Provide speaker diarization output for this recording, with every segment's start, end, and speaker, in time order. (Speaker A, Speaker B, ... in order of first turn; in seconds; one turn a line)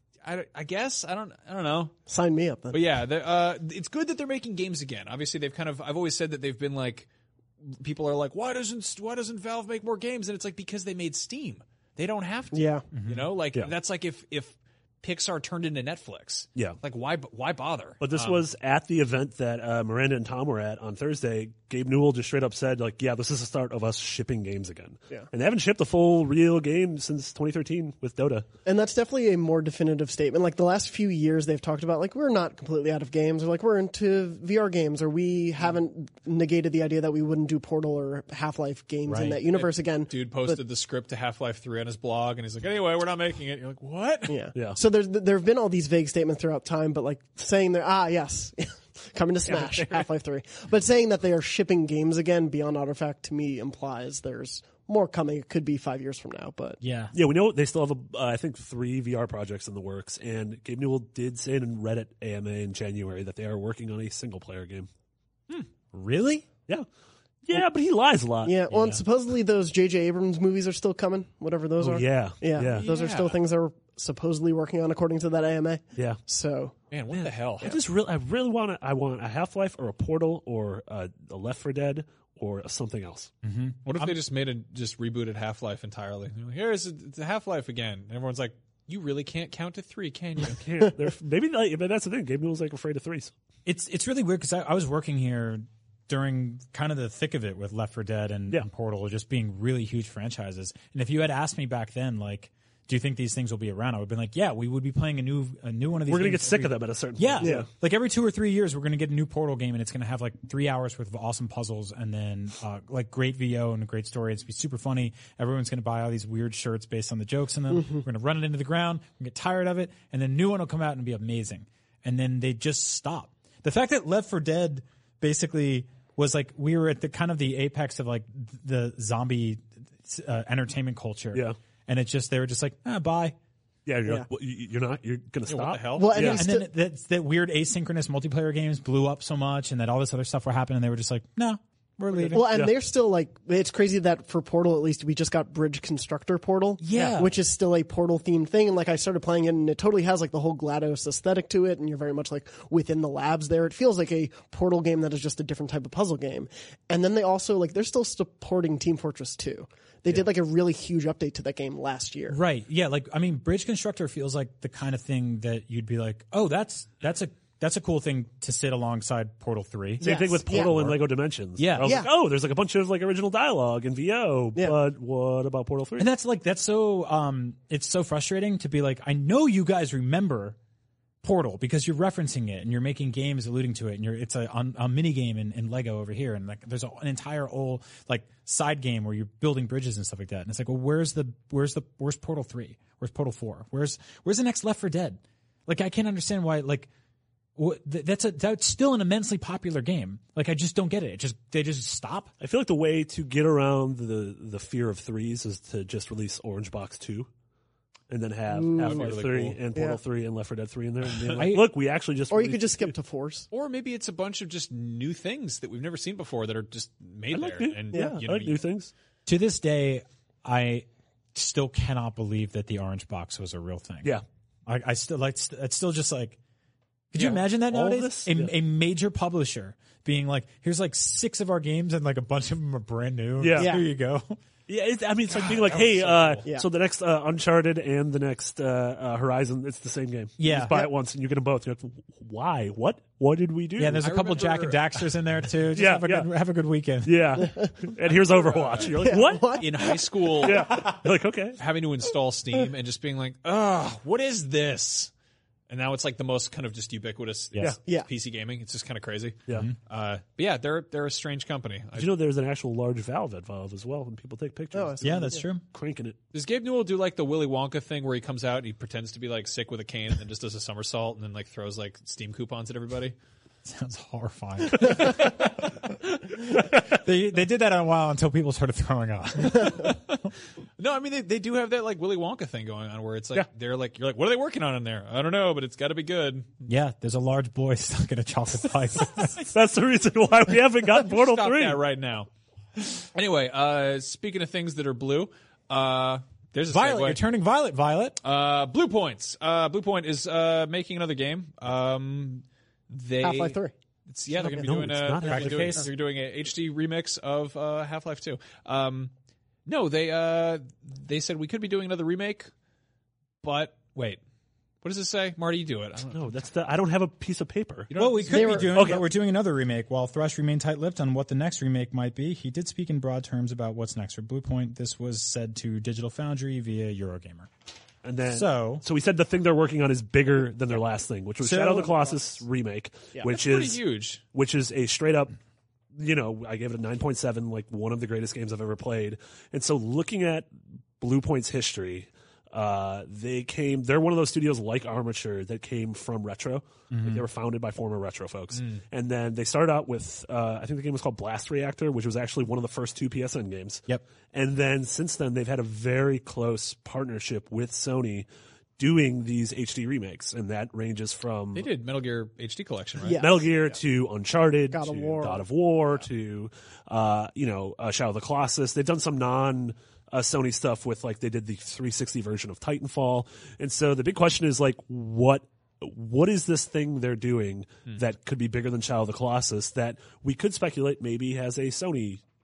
Speaker A: 0.2-2.0
Speaker B: 2.1-2.8
Speaker A: 2.7-7.1
Speaker A: 7.6-18.5
Speaker B: 12.5-12.8
Speaker C: 12.9-13.3
Speaker D: 18.0-28.5
Speaker B: 28.6-40.6
Speaker C: 39.1-39.4
Speaker A: 39.5-44.4
Speaker B: 44.3-56.8
Speaker D: 49.5-49.9
Speaker C: 56.8-57.1
Speaker D: 57.1-64.9
Speaker C: 65.9-66.5
Speaker D: 67.5-68.5
Speaker B: 68.5-76.7
Speaker C: 68.7-69.0
Speaker D: 71.8-72.9
Speaker A: 72.7-73.4
Speaker A: 76.9-77.8
Speaker D: 77.1-83.3
Speaker C: 83.4-84.2
Speaker A: 83.9-90.6
Speaker D: 90.5-93.3
Speaker C: 93.7-133.4
Speaker D: 106.1-107.7
Speaker B: 107.4-107.7
Speaker B: 117.7-118.0
Speaker D: 133.9-136.4
Speaker A: 135.5-136.4
Speaker B: 136.0-136.7
Speaker C: 136.2-142.5
Speaker B: 142.3-162.4
Speaker D: 142.4-142.7
Speaker C: 146.8-147.4
Speaker C: 162.3-171.0
Speaker D: 170.0-176.1
Speaker B: 170.0-170.8
Speaker C: 171.6-172.0
Speaker B: 171.8-172.1
Speaker C: 176.0-180.6
Speaker C: 181.2-196.9
Speaker C: 197.6-202.3
Speaker D: 202.4-207.3
Speaker D: 208.1-212.9
Speaker B: 208.5-209.1
Speaker A: 208.7-209.6
Speaker B: 209.7-210.0
Speaker C: 211.3-211.7
Speaker B: 212.3-213.5
Speaker A: 213.5-218.6
Speaker D: 217.3-218.9
Speaker C: 219.3-226.4
Speaker C: 227.1-234.4
Speaker D: 227.2-228.5
Speaker D: 233.4-233.8
Speaker B: 233.5-233.8
Speaker D: 234.7-244.2
Speaker A: 235.3-236.4
Speaker C: 240.4-240.9
Speaker C: 243.8-247.4
Speaker A: 244.0-245.0
Speaker D: 245.7-246.3
Speaker D: 247.0-249.9
Speaker B: 247.4-247.7
Speaker A: 248.1-249.0
Speaker B: 249.0-249.9
Speaker A: 249.6-250.9
Speaker D: 250.4-251.6
Speaker A: 251.6-255.1
Speaker A: 255.7-262.1
Speaker D: 262.0-266.2
Speaker B: 264.7-265.5
Speaker C: 265.0-265.6
Speaker A: 266.3-273.1
Speaker C: 273.6-280.3
Speaker A: 280.8-286.6
Speaker C: 286.7-289.4
Speaker D: 289.5-291.8
Speaker A: 291.0-292.3
Speaker A: 293.1-297.2
Speaker C: 296.7-298.2
Speaker A: 298.2-309.1
Speaker B: 303.2-303.7
Speaker D: 304.3-305.9
Speaker C: 305.2-305.9
Speaker A: 309.7-312.5
Speaker A: 313.4-314.2
Speaker A: 314.8-316.5
Speaker D: 316.1-317.9
Speaker A: 317.9-318.7
Speaker C: 318.0-327.5
Speaker B: 318.3-318.8
Speaker D: 318.4-319.1
Speaker D: 328.0-335.4
Speaker C: 328.3-328.8
Speaker C: 331.4-332.0
Speaker A: 333.3-334.2
Speaker D: 335.9-358.3
Speaker C: 346.9-347.3
Speaker A: 348.5-348.8
Speaker D: 358.8-361.7
Speaker A: 361.6-363.2
Speaker B: 363.0-363.8
Speaker D: 363.2-382.2
Speaker B: 364.7-365.4